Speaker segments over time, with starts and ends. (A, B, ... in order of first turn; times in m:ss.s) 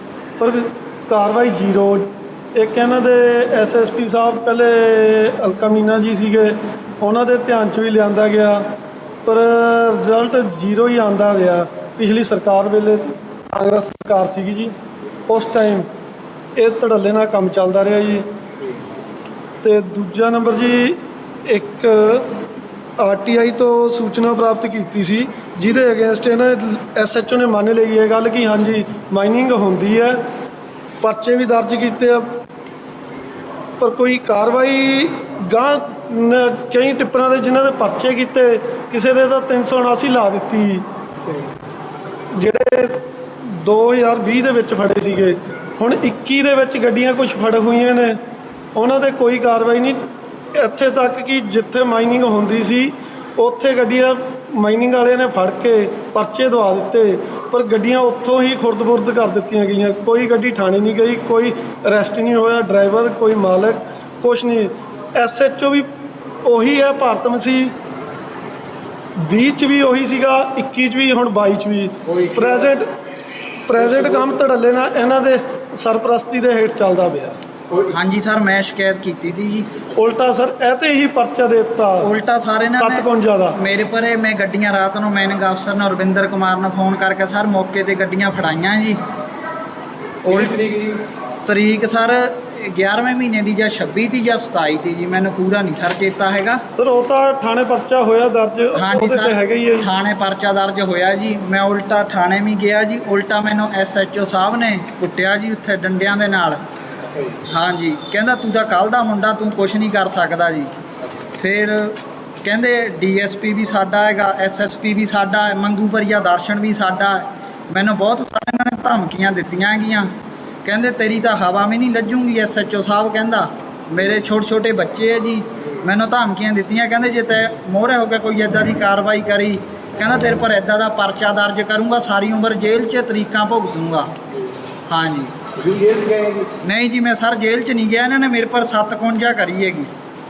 0:00.4-0:14.7 A
0:15.3-0:15.9 A
0:16.6-0:18.2 A
0:19.6-0:22.3 A
0:23.0-0:30.2 A
0:31.0-0:32.3 A
0:33.8-0:40.9 A
0:42.3-0:48.2 A
0:48.7-0:50.0 A
0:50.5-1:05.9 A
1:06.4-1:07.7 A
1:09.2-1:12.9 A
1:12.1-1:12.8 B
1:13.7-1:17.4 A
1:13.8-1:14.3 B
1:17.9-1:19.7 C
1:20.0-1:22.1 A
1:22.0-1:29.0 C
1:22.6-1:23.6 A
1:30.2-1:30.6 C
1:31.4-1:36.6 C
1:36.7-1:39.9 A
1:38.7-1:46.6 C
1:47.5-1:50.7 C
1:51.4-2:00.1 C
2:00.6-2:14.1 C
2:14.9-2:15.3 C
2:15.6-2:16.5 B
2:16.6-2:19.9 C